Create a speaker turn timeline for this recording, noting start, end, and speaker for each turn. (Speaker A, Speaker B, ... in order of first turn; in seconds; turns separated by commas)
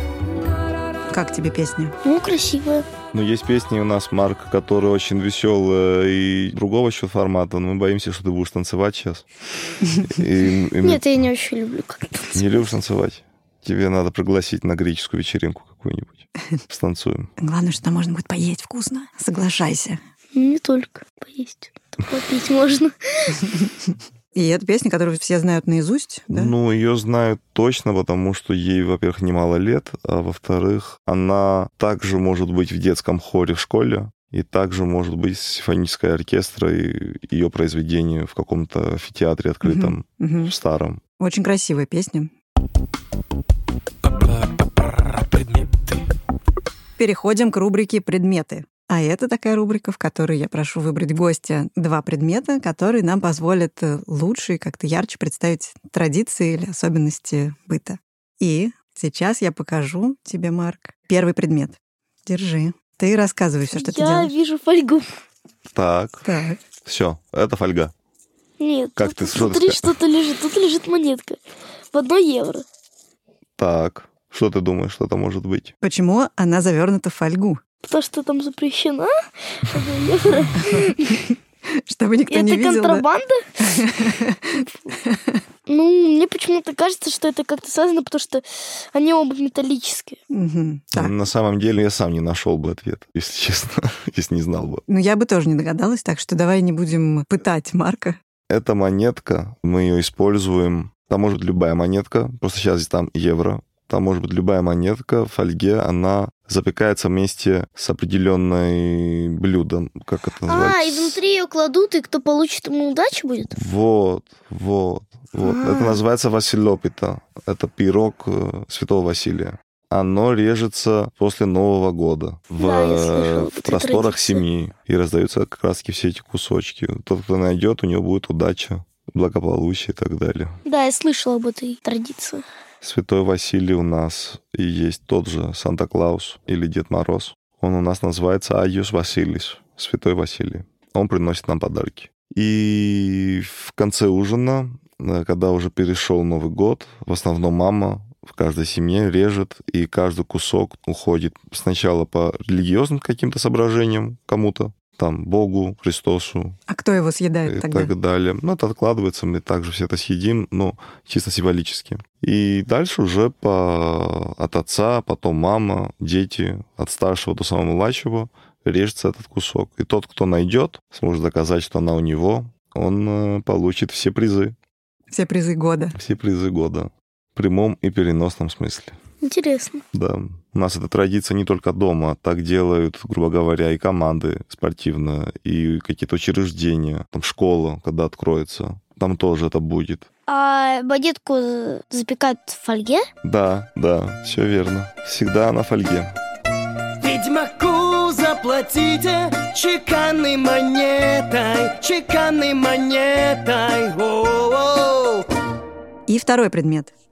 Speaker A: 1.1-1.9, Speaker B: 2.0-2.9, Speaker C: 3.1-9.2, Speaker A: 9.8-10.1, Speaker C: 10.0-11.0, Speaker B: 10.8-12.7, Speaker C: 12.3-17.3, Speaker A: 17.4-20.0, Speaker B: 20.3-23.4, Speaker A: 24.3-26.5, Speaker C: 26.3-41.0, Speaker A: 39.6-40.5, Speaker A: 41.2-42.3, Speaker A: 47.0-64.3, Speaker B: 63.7-65.0, Speaker C: 65.7-66.3, Speaker A: 66.2-66.6, Speaker C: 66.8-67.9, Speaker B: 68.6-71.4, Speaker C: 69.0-70.0, Speaker B: 71.9-72.6, Speaker C: 73.6-75.7, Speaker A: 75.8-77.6, Speaker B: 77.8-81.2, Speaker A: 81.1-83.0, Speaker B: 82.3-83.9, Speaker A: 83.6-85.4, Speaker B: 84.6-85.0, Speaker B: 85.7-90.2, Speaker A: 90.3-91.1, Speaker C: 90.9-94.8, Speaker A: 94.9-98.2, Speaker C: 98.5-111.2, Speaker B: 110.5-113.6, Speaker C: 113.5-130.6, Speaker B: 115.4-116.0, Speaker B: 122.6-124.4, Speaker B: 130.7-132.4, Speaker C: 132.8-156.6, Speaker A: 156.7-157.9, Speaker C: 157.4-174.6, Speaker A: 175.1-176.0, Speaker C: 175.9-179.0, Speaker B: 179.2-179.8, Speaker C: 179.9-190.1, Speaker B: 190.3-193.1, Speaker C: 193.2-196.1, Speaker D: 197.0-205.2, Speaker A: 206.1-206.9